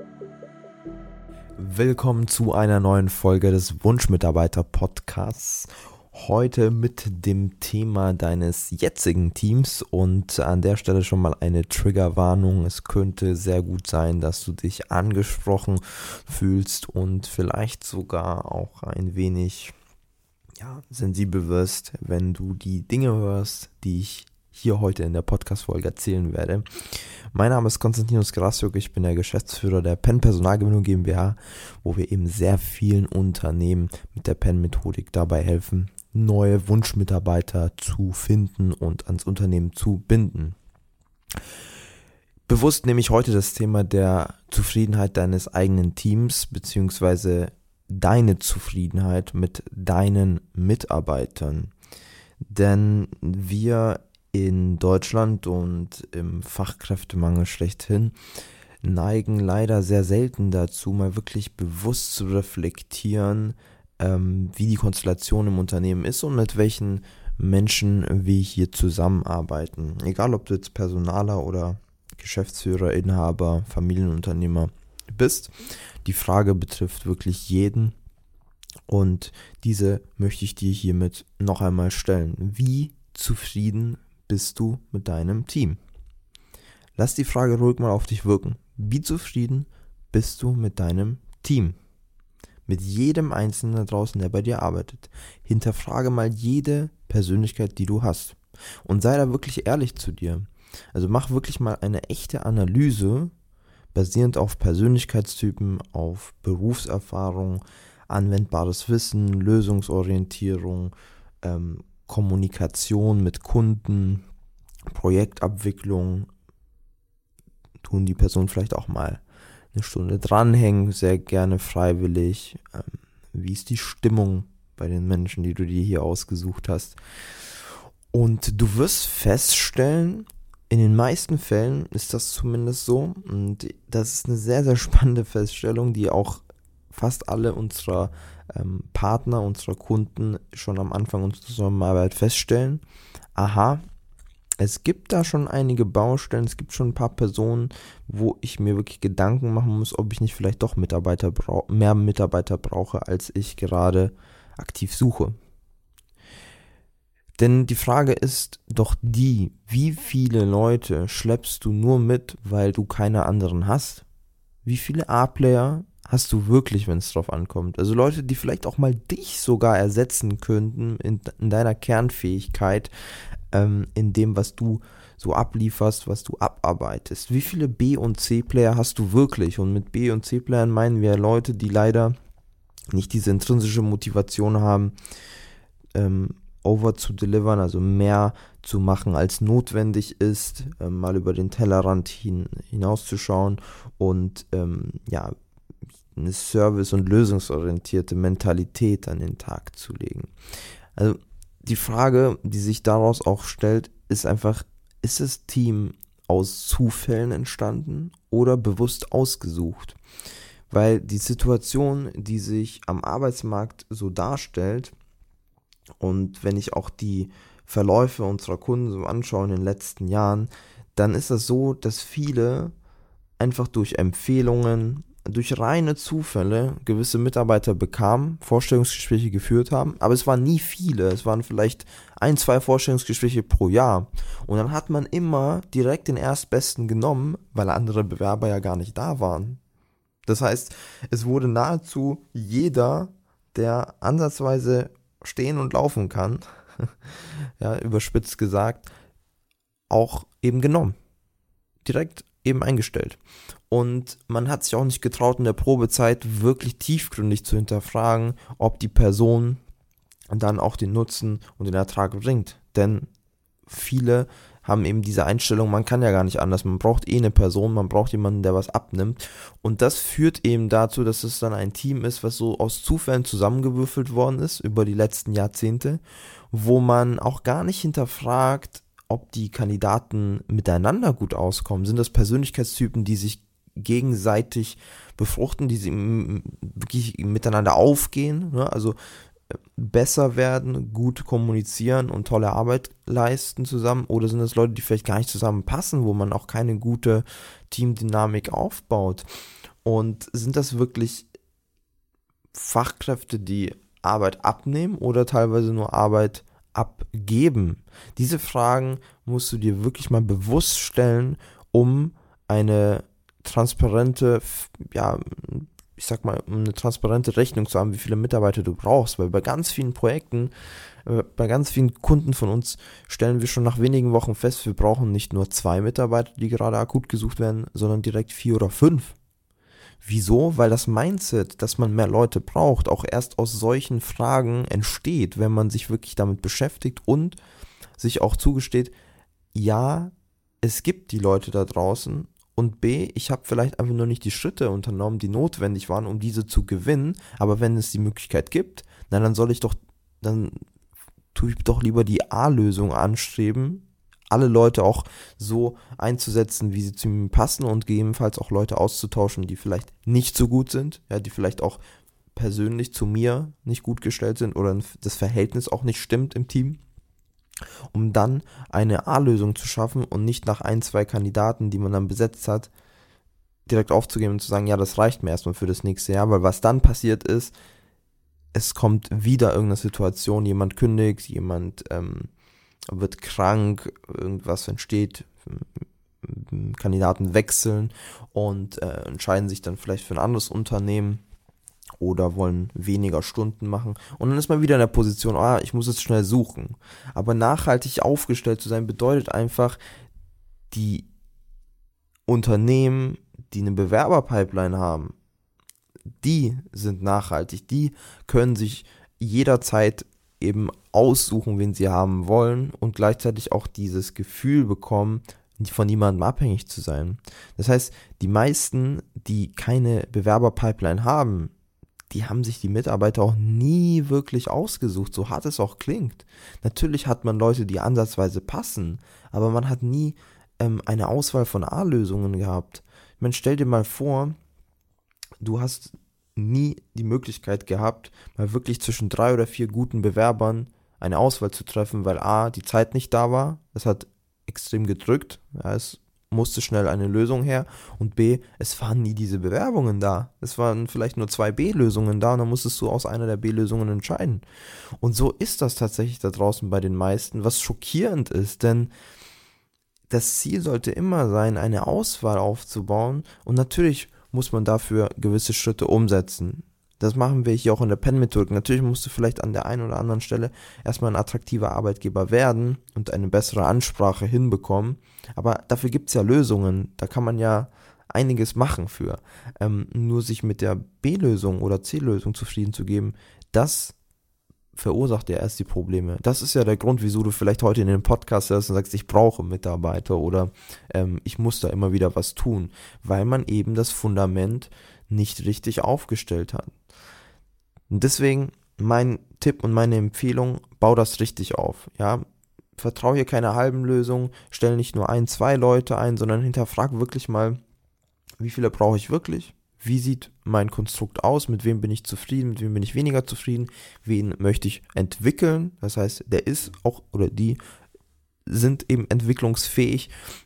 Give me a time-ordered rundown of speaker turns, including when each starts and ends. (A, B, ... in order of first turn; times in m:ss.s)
0:01.6-0:19.7 A
0:20.6-0:40.6 A
0:42.5-0:51.7 A
0:52.5-0:58.1 A
0:58.8-1:18.0 A
1:18.9-1:25.8 A
1:27.0-1:31.8 A
1:32.7-1:43.3 A
1:43.9-1:54.2 A
1:54.9-1:56.3 A
1:57.8-1:59.2 A
1:59.7-2:07.0 A
2:08.1-2:22.8 A
2:23.4-2:23.8 A
2:24.6-2:35.4 A
2:37.4-2:44.0 A
2:44.6-2:52.9 A
2:53.5-3:02.2 A
3:02.9-3:04.9 A
3:05.9-3:15.3 A
3:16.2-3:20.3 A
3:21.0-3:30.0 A
3:30.7-3:34.9 A
3:36.0-3:42.7 A
3:43.4-3:59.6 A
4:00.3-4:08.9 A
4:09.9-4:11.0 A
4:11.8-4:13.2 A
4:13.7-4:19.6 A
4:20.3-4:23.1 A
4:23.7-4:49.0 A
4:49.8-4:59.3 A
4:59.8-5:01.3 A
5:02.5-5:20.5 A
5:21.0-5:29.2 A
5:30.0-5:37.4 A
5:38.0-5:38.9 A
5:39.5-5:50.6 A
5:51.3-6:01.8 A
6:02.4-6:06.8 A
6:07.9-6:12.7 A
6:13.7-6:17.5 A
6:18.5-6:22.3 A
6:22.9-6:31.2 A
6:32.0-6:39.8 A
6:40.7-6:41.1 A
6:42.3-6:45.1 A
6:46.2-7:01.5 A
7:02.1-7:14.4 A
7:15.4-7:34.4 A
7:35.0-7:38.9 A
7:40.1-8:04.0 A
8:04.7-8:16.7 A
8:17.9-8:22.2 A
8:22.8-8:27.6 A
8:28.4-8:37.6 A
8:38.5-8:40.1 A